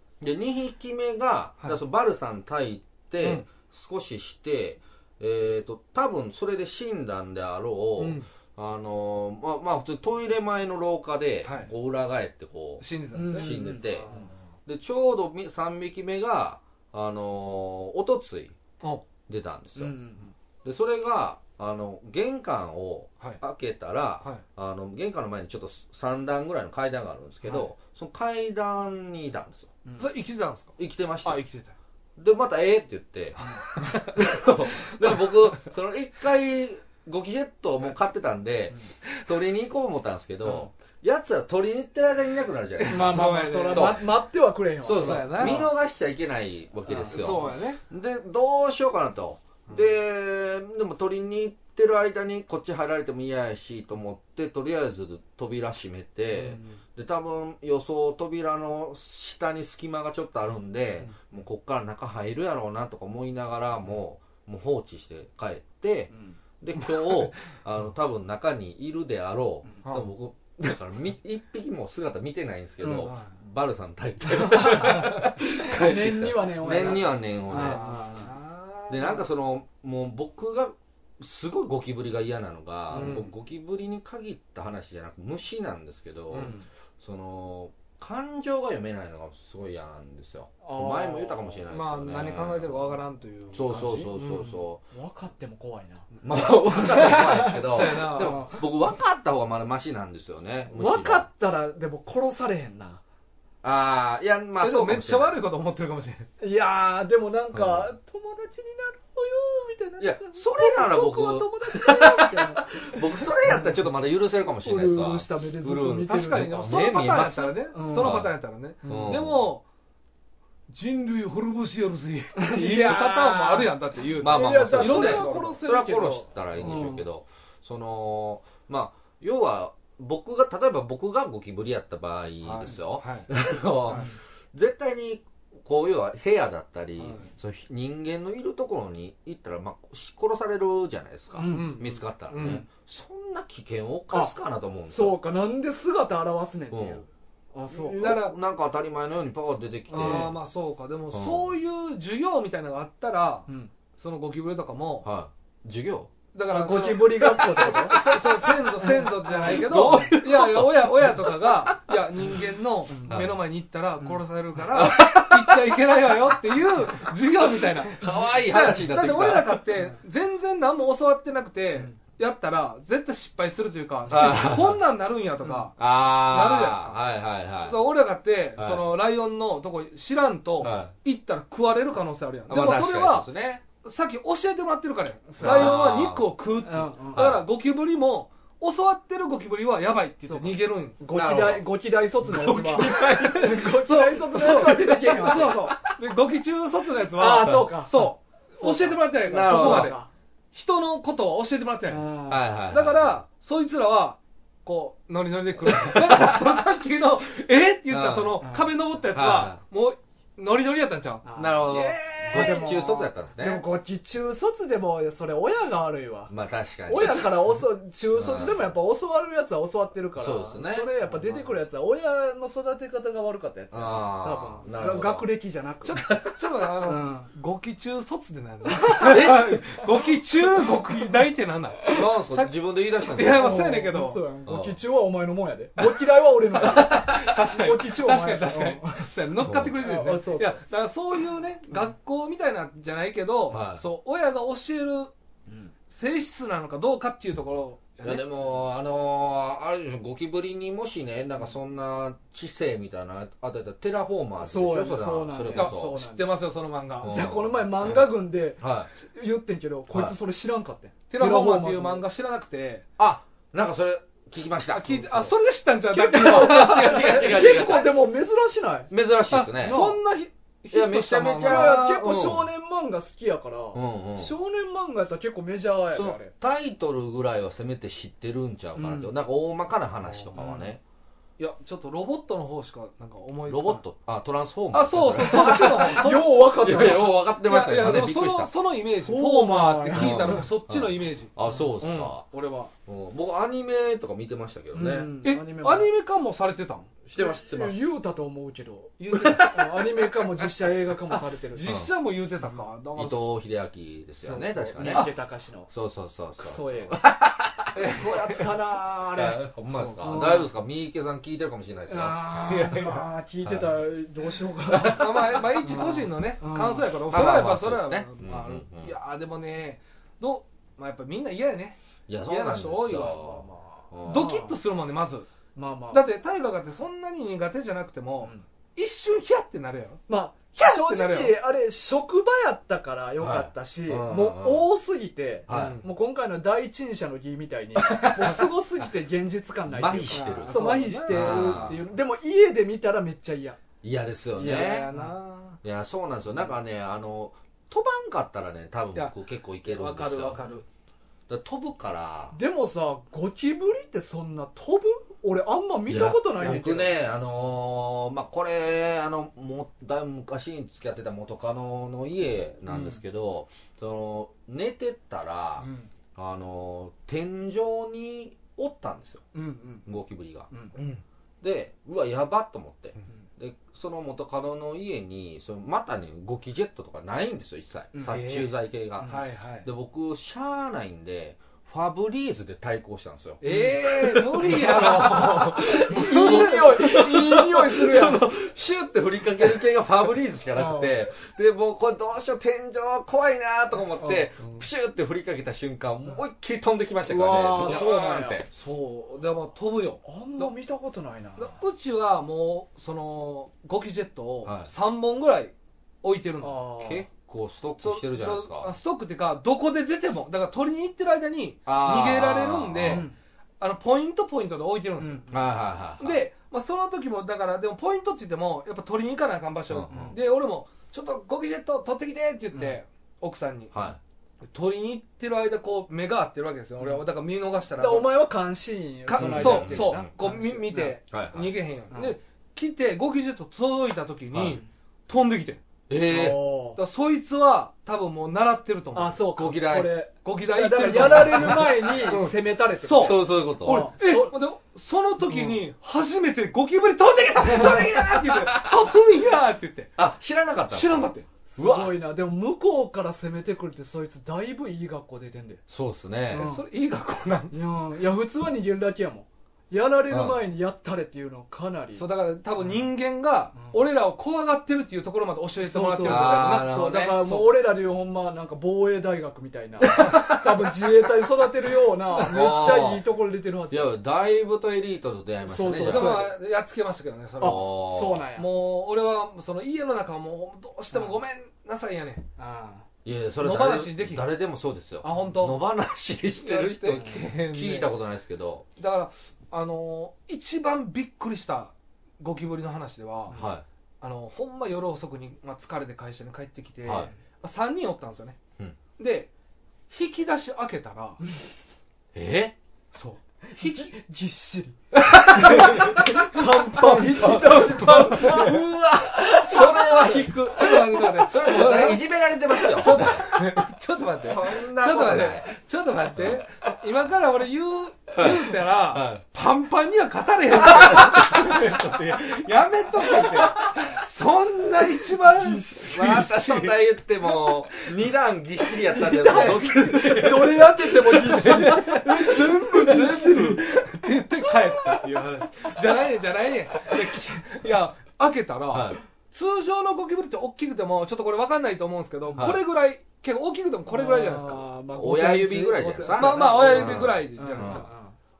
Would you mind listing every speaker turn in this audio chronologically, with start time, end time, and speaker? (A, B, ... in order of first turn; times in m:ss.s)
0:00.2-0:14.1 A
0:03.2-0:03.4 B
0:08.0-0:08.3 B
0:11.4-0:11.7 B
0:12.8-0:14.3 B
0:13.1-0:14.3 C
0:14.6-0:18.5 A
0:19.3-0:20.0 A
0:19.8-0:20.3 C
0:20.6-0:29.7 A
0:29.8-0:30.1 C
0:30.0-0:31.7 B
0:30.8-0:31.4 A
0:32.2-0:44.0 A
0:33.4-0:34.1 B
0:42.8-0:44.0 B
0:42.9-0:45.7 C
0:44.8-1:17.8 A
0:44.9-0:45.7 B
0:46.9-0:47.8 B
0:56.3-0:56.8 B
1:09.8-1:10.1 B
1:12.8-1:13.1 C
1:13.0-1:13.3 B
1:14.5-1:18.3 C
1:16.8-1:19.2 B
1:18.9-1:33.0 A
1:22.9-1:23.3 C
1:22.9-1:23.3 B
1:26.3-1:26.6 C
1:30.6-1:31.7 C
1:31.7-1:34.5 B
1:33.5-1:34.8 A
1:34.9-1:36.1 C
1:36.2-1:41.3 A
1:36.3-1:38.5 B
1:36.9-1:38.6 C
1:40.7-1:43.0 C
1:43.6-1:45.4 A
1:44.6-1:46.3 B
1:46.4-1:53.9 C
1:47.5-1:47.8 A
1:50.0-1:58.3 A
1:54.6-1:56.8 C
1:56.1-1:59.6 B
1:57.7-1:58.2 C
1:58.8-1:59.2 C
1:58.8-1:59.5 A
2:00.7-2:05.6 B
2:02.4-2:03.7 C
2:04.2-2:25.2 A
2:04.2-2:07.0 C
2:12.4-2:13.3 B
2:17.0-2:17.3 B
2:21.3-2:21.8 C
2:21.5-2:22.6 B
2:24.9-2:28.2 C
2:26.7-2:27.0 A
2:27.7-2:28.4 B
2:27.8-2:30.3 A
2:29.9-2:30.3 C
2:29.9-2:35.1 B
2:31.1-2:31.5 A
2:33.5-2:33.7 C
2:35.0-2:36.1 A
2:36.3-2:57.0 B
2:36.5-2:38.1 C
2:37.9-2:38.6 A
2:38.8-2:40.1 C
2:39.3-2:42.0 A
2:42.9-2:43.2 C
2:43.1-2:43.4 A
2:44.7-2:45.8 A
2:47.9-2:49.6 A
2:54.1-2:54.8 A
2:55.8-2:57.8 A
2:57.6-3:03.3 B
2:58.6-2:58.8 A
3:00.6-3:00.9 A
3:02.5-3:03.6 A
3:03.8-3:11.5 B
3:05.3-3:06.0 C
3:05.4-3:06.3 A
3:06.6-3:07.4 C
3:07.1-3:07.4 A
3:10.2-3:15.9 C
3:11.1-3:11.6 A
3:12.2-3:13.4 A
3:12.7-3:20.0 B
3:17.1-3:20.1 C
3:17.4-3:17.7 A
3:19.3-3:19.9 A
3:20.5-3:22.1 B
3:21.9-3:22.4 C
3:22.3-3:23.2 A
3:22.7-3:32.9 B
3:27.9-3:28.4 A
3:28.4-3:28.7 C
3:29.1-3:29.6 A
3:31.2-3:36.3 C
3:31.4-3:33.6 A
3:36.3-3:37.4 A
3:36.9-3:46.0 C
3:38.1-3:38.6 A
3:40.2-3:41.0 A
3:43.7-3:45.2 A
3:45.8-3:52.5 B
3:46.8-3:47.3 C
3:48.7-3:49.4 C
3:49.0-3:49.8 A
3:51.9-3:53.7 A
3:53.1-3:54.2 B
3:53.2-3:59.1 C
3:54.4-3:54.8 A
3:55.8-4:05.1 B
3:59.4-3:59.8 A
3:59.8-4:00.6 C
4:03.5-4:03.8 A
4:05.5-4:05.7 C
4:05.9-4:08.3 B
4:08.0-4:16.0 A
4:14.4-4:16.3 C
4:15.5-4:17.1 B
4:17.0-4:18.9 A
4:17.0-4:22.0 C
4:19.9-4:20.2 A
4:21.1-4:22.8 B
4:23.0-4:25.3 A
4:24.7-4:27.3 B
4:25.9-4:28.9 C
4:26.0-4:28.0 A
4:28.9-4:29.8 A
4:29.3-4:31.8 B
4:29.6-4:30.0 C
4:30.7-4:32.4 A
4:31.4-4:36.3 C
4:33.7-4:34.3 A
4:35.9-4:40.8 A
4:38.8-4:39.1 C
4:40.0-4:40.7 B
4:41.4-4:43.8 B
4:43.5-4:48.5 A
4:44.7-4:46.9 B
4:45.2-4:47.2 C
4:47.4-4:52.7 B
4:49.0-4:50.5 C
4:49.9-4:52.3 A
4:52.8-4:55.1 A
4:54.7-4:55.9 C
4:55.2-4:56.9 B
4:57.0-4:57.8 A
4:57.1-5:01.7 C
4:59.0-4:59.6 B
4:59.2-4:59.6 A
5:01.5-5:03.3 B
5:02.9-5:05.1 A
5:04.2-5:05.7 C
5:04.8-5:05.1 B
5:05.7-5:12.9 A
5:06.4-5:07.0 C
5:07.7-5:08.5 B
5:07.8-5:09.4 C
5:09.7-5:10.3 B
5:10.0-5:10.5 C
5:11.9-5:16.9 C
5:12.4-5:13.0 B
5:13.4-5:13.7 A
5:14.7-5:15.3 A
5:14.8-5:23.2 B
5:17.0-5:19.0 A
5:22.1-5:24.4 A
5:22.9-5:24.5 C
5:24.1-5:25.3 B
5:25.5-5:26.0 C
5:25.9-5:30.0 B
5:30.1-5:43.6 C
5:30.6-5:31.4 B
5:33.2-5:34.6 A
5:35.5-5:35.8 A
5:35.5-5:35.9 B
5:37.8-5:38.5 B
5:39.7-5:41.8 A
5:40.1-5:41.8 B
5:43.8-5:44.9 A
5:44.4-5:45.1 C
5:44.4-5:45.6 B
5:45.6-5:50.4 A
5:49.7-5:50.6 B
5:51.3-5:52.4 A
5:52.3-5:57.0 C
5:55.9-6:09.2 A
5:56.4-5:56.7 B
6:02.7-6:03.0 B
6:05.6-6:05.9 C
6:09.3-6:09.8 C
6:09.8-6:10.5 A
6:10.7-6:11.0 B
6:11.4-6:38.5 A
6:17.9-6:18.2 C
6:18.1-6:18.5 B
6:19.0-6:19.7 B
6:23.4-6:26.9 B
6:23.4-6:23.8 C
6:24.5-6:28.2 C
6:30.5-6:31.1 C
6:34.0-6:34.3 C
6:37.1-6:38.4 C
6:38.5-6:40.5 B
6:40.0-6:41.6 C
6:41.4-6:46.7 B
6:44.4-6:44.7 A
6:46.4-6:47.0 C
6:46.8-6:48.7 A
6:47.8-6:53.0 B
6:51.6-6:53.1 A
6:52.9-6:53.1 C
6:53.6-6:55.2 B
6:55.0-6:55.4 C
6:55.3-6:56.2 A
6:56.0-7:03.8 B
6:59.7-7:00.1 A
6:59.9-7:00.2 C
7:03.7-7:04.0 A
7:04.4-7:08.2 B
7:07.8-7:11.0 C
7:09.0-7:15.6 B
7:09.1-7:10.2 A
7:11.1-7:11.5 A
7:11.9-7:12.2 C
7:14.3-7:14.6 A
7:15.9-7:16.5 A
7:16.1-7:16.8 C
7:16.8-7:19.2 B
7:18.9-7:24.4 C
7:19.3-7:20.0 A
7:20.2-7:29.9 B
7:22.9-7:23.9 A
7:25.1-7:25.6 C
7:28.1-7:28.4 A
7:30.0-7:31.0 A
7:30.7-7:31.3 B
7:31.5-7:35.6 C
7:31.6-7:32.0 A
7:35.7-7:36.5 A
7:36.3-7:36.6 C
7:36.3-7:37.6 B
7:37.5-7:42.1 C
7:40.1-7:40.4 A
7:41.9-7:46.9 B
7:45.6-7:53.9 C
7:46.0-7:47.6 A
7:49.9-7:50.5 B
7:52.2-7:53.0 A
7:53.7-7:56.3 A
7:55.5-7:56.4 C
7:55.8-7:57.7 B
7:57.4-7:58.5 C
7:57.4-7:58.2 A
7:58.3-8:02.2 B
8:02.4-8:02.8 C
8:03.0-8:08.6 A
8:03.4-8:04.2 B
8:05.0-8:05.6 B
8:06.4-8:07.9 B
8:08.8-8:13.4 B
8:13.3-8:13.6 A
8:14.0-8:18.4 B
8:16.8-8:17.1 A
8:19.0-8:19.3 B
8:19.9-8:21.2 B
8:22.1-8:22.5 A
8:22.9-8:23.9 B
8:23.5-8:30.3 C
8:24.9-8:28.6 B
8:26.9-8:33.4 A
8:29.5-8:32.0 B
8:31.0-8:31.8 C
8:32.5-8:47.9 B
8:34.2-8:35.5 A
8:38.2-8:39.2 A
8:40.9-8:41.6 A
8:45.2-8:46.1 C
8:45.8-8:51.8 A
8:48.9-8:53.6 C
8:49.3-9:04.7 B
8:58.7-8:59.0 A
9:03.9-9:08.1 C
9:04.9-9:07.8 A
9:06.1-9:07.9 B